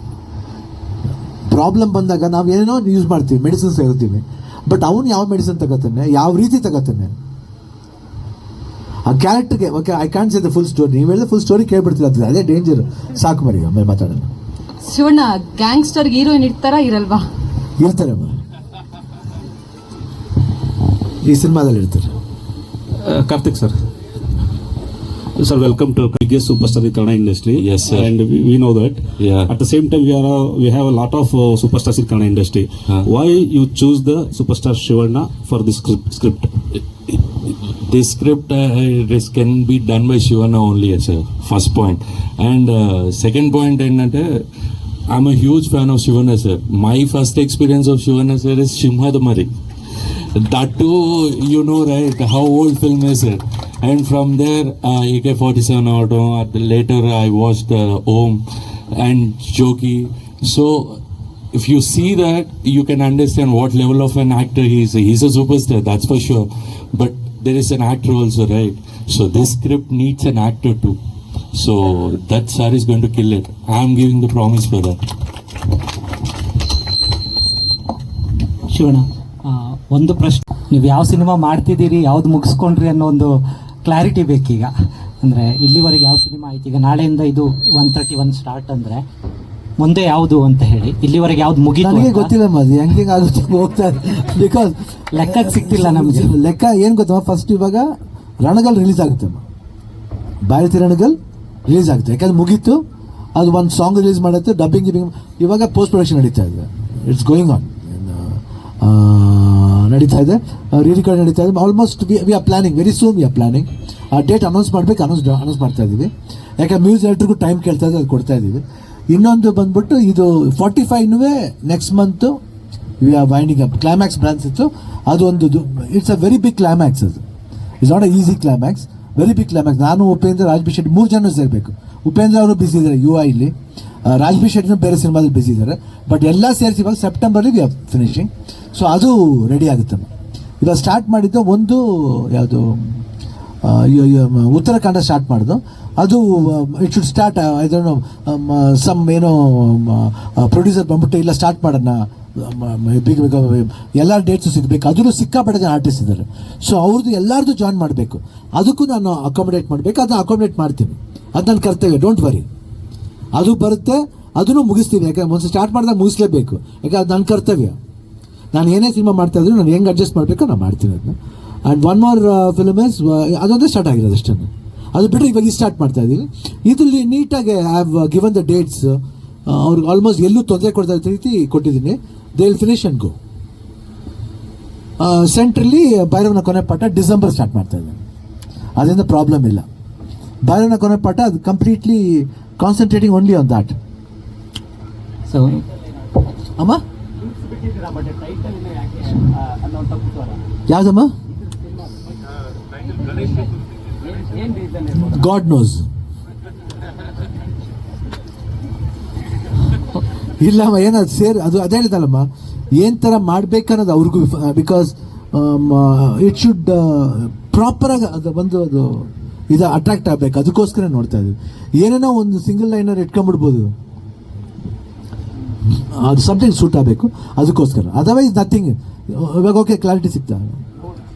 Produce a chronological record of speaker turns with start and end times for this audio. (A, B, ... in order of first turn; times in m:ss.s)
0:01.5-0:07.2 A
0:09.1-0:14.3 A
0:14.8-0:17.2 B
0:17.8-0:18.4 A
0:21.2-0:22.2 A
0:23.0-0:23.8 C
0:25.4-0:36.5 C
0:27.6-0:28.1 D
0:29.2-0:29.5 D
0:37.8-0:44.4 D
0:45.1-0:49.5 D
0:50.4-1:01.0 D
1:01.5-1:11.0 D
1:11.6-1:15.0 D
1:18.7-1:24.7 E
1:25.2-1:29.0 E
1:29.8-1:32.3 E
1:31.8-1:37.9 A
1:35.1-1:36.4 E
1:38.4-1:39.4 A
1:40.4-1:42.8 A
1:43.4-2:02.4 A
2:03.0-2:07.2 A
2:07.8-2:13.5 A
2:14.0-2:20.1 A
2:20.6-2:23.0 A
2:23.6-2:42.5 A
2:43.3-2:47.8 A
2:48.5-3:03.2 A
3:05.0-3:08.0 A
3:08.8-3:09.7 A
3:10.4-3:13.8 A
3:15.3-3:15.6 E
3:20.7-3:21.1 A
3:24.9-3:25.9 A
3:30.4-3:43.7 A
3:45.9-3:50.6 A